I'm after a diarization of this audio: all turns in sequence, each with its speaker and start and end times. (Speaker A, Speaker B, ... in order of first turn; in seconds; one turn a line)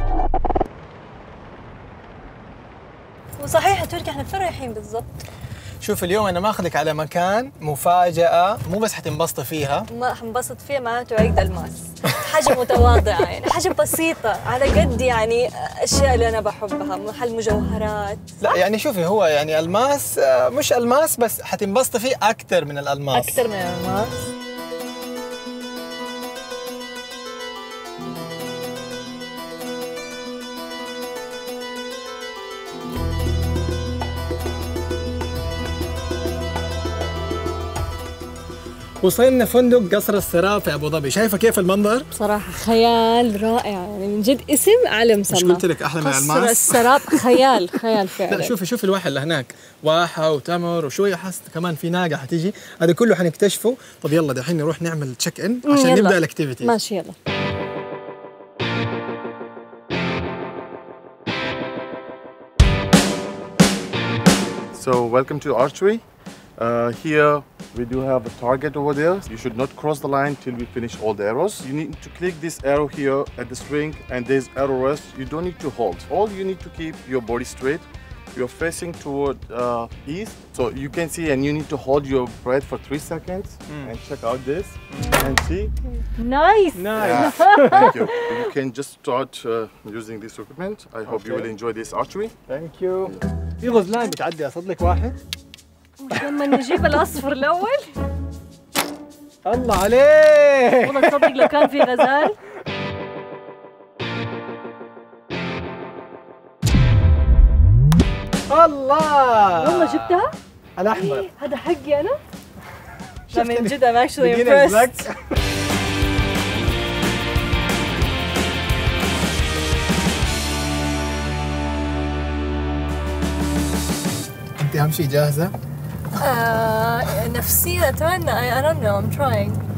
Speaker A: 3.4-5.2
Speaker B: 5.8-9.9
Speaker A: 9.9-18.6
Speaker B: 18.4-23.4
Speaker A: 23.1-24.3
Speaker B: 39.0-42.1
Speaker A: 42.1-48.6
Speaker B: 45.3-56.8
Speaker A: 55.7-57.1
Speaker C: 64.7-66.0
Speaker C: 66.6-85.8
Speaker B: 83.7-83.9
Speaker A: 86.2-88.3
Speaker B: 86.8-88.0
Speaker C: 87.0-92.4
Speaker B: 91.1-91.5
Speaker B: 92.5-95.2
Speaker A: 96.0-97.9
Speaker B: 96.1-97.0
Speaker B: 99.5-102.3
Speaker A: 100.8-102.4
Speaker B: 108.5-110.2
Speaker A: 109.6-110.3
Speaker B: 110.8-111.3
Speaker A: 110.9-112.2
Speaker B: 113.3-115.2
Speaker A: 113.3-115.1
Speaker B: 124.6-125.5
Speaker A: 126.1-129.6